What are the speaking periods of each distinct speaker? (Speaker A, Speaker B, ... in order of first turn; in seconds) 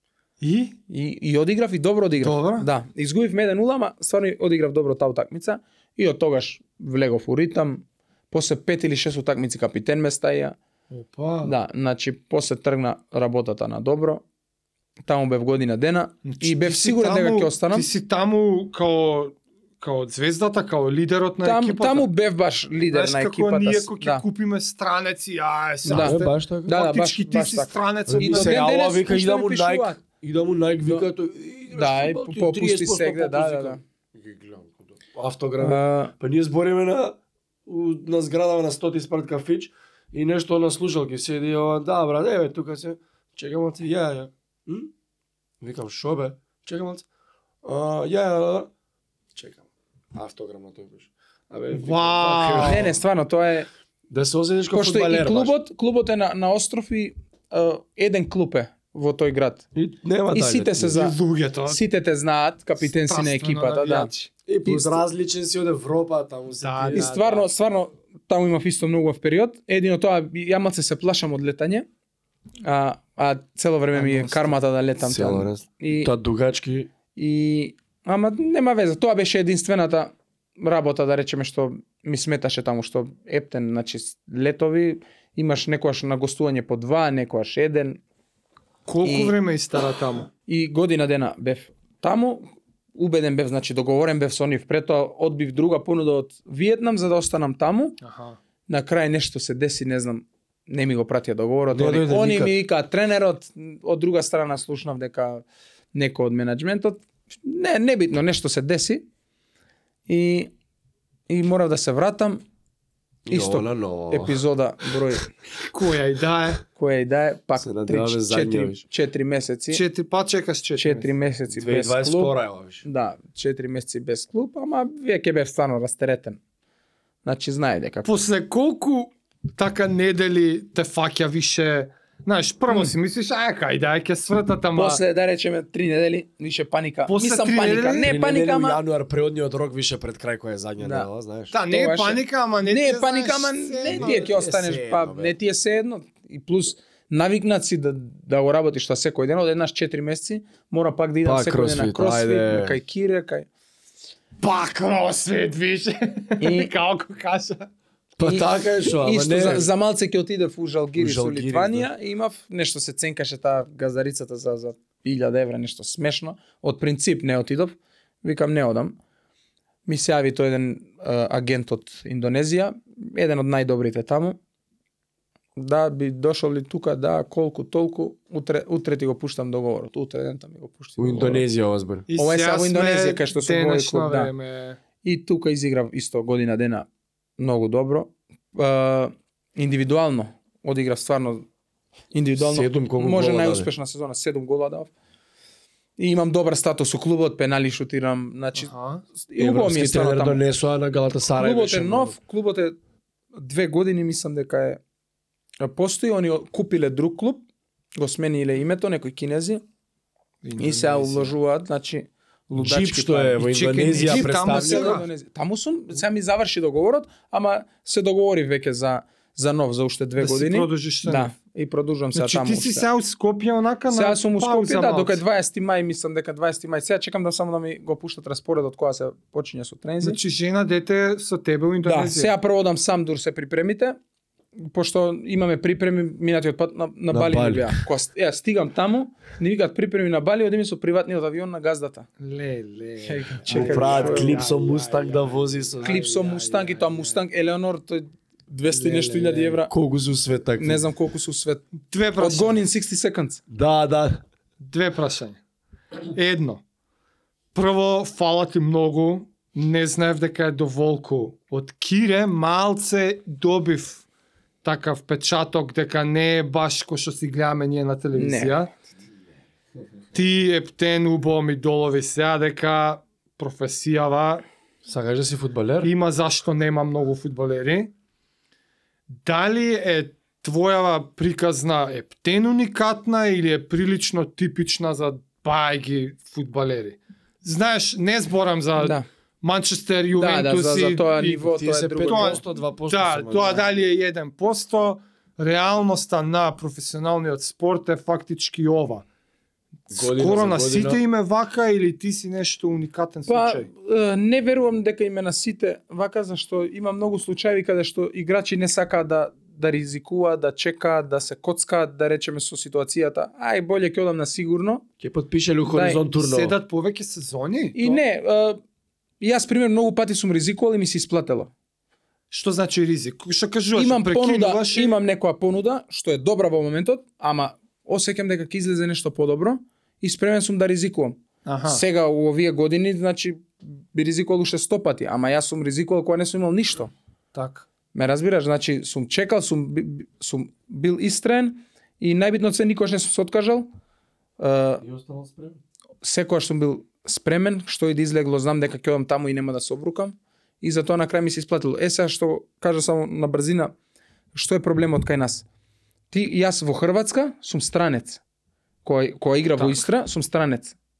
Speaker A: 0.4-0.8, 2.2-2.7, 10.9-11.5, 16.2-22.1, 22.9-28.9, 51.7-52.9, 60.9-61.8, 62.8-64.3, 66.6-67.3, 88.8-90.3, 98.0-98.4, 115.7-116.6, 119.7-121.1, 128.0-135.0, 137.1-138.1, 141.5-144.3, 154.4-157.7, 182.1-184.8, 198.6-199.0, 210.4-211.3, 213.4-215.1, 220.2-221.3, 222.1-225.2, 230.0-232.3, 242.2-247.2, 248.7-249.6, 251.9-252.6, 254.6-255.4, 256.1-256.6, 257.5-264.0, 264.6-268.7, 270.1-274.4, 275.8-277.9, 279.2-299.0, 299.9-303.7, 316.1-318.0, 322.3-325.0, 331.4-331.8, 337.3-337.7
Speaker B: 0.9-10.5, 11.4-14.2, 15.0-17.9, 21.4-24.2, 25.9-30.0, 31.7-33.8, 35.6-36.1, 52.6-53.7, 54.7-59.6, 60.3-64.1, 64.6-65.0, 66.9-71.8, 72.6-76.1, 77.2-88.0, 89.0-89.3, 90.5-98.0, 98.7-109.0, 110.1-110.5, 111.3-112.4, 113.3-115.3, 116.8-119.8, 120.8-126.4, 127.2-128.2, 134.7-138.8, 140.8-141.1, 141.7-153.5, 156.4-156.7, 158.2-168.9, 169.8-174.4, 175.6-181.4, 182.1-184.3, 185.0-186.9, 187.4-191.4, 192.1-194.9, 196.0-198.7, 199.2-200.4, 201.4-202.7, 203.3-204.8, 205.6-207.4, 208.0-209.6, 210.6-222.8, 223.9-230.2, 231.8-233.9, 234.6-242.1, 243.0-244.4, 245.8-249.7, 250.6-251.7, 252.2-253.4, 268.2-268.6, 288.8-289.1, 290.2-292.4, 303.3-314.9, 315.6-316.0, 317.8-318.6, 319.2-321.5, 323.7-336.9, 337.9-343.7, 344.4-344.8, 346.0-353.7, 354.3-355.4, 356.1-358.2, 358.8-360.7
Speaker C: 25.9-26.7, 28.1-44.9, 45.6-47.0, 47.6-48.7, 49.3-53.0, 54.1-55.5, 59.7-61.0, 64.5-67.5, 73.9-76.9, 101.7-102.5, 113.3-114.4, 117.6-118.8, 121.5-122.8, 138.0-141.5, 143.9-145.3, 151.2-152.8, 158.2-159.7, 160.9-161.9, 181.0-182.1, 192.4-193.7, 199.4-202.2, 212.6-215.0, 237.1-237.8, 243.5-246.0, 249.7-250.8, 253.5-254.2, 274.8-275.9, 291.5-293.6, 299.9-301.0, 315.0-316.5, 344.8-345.6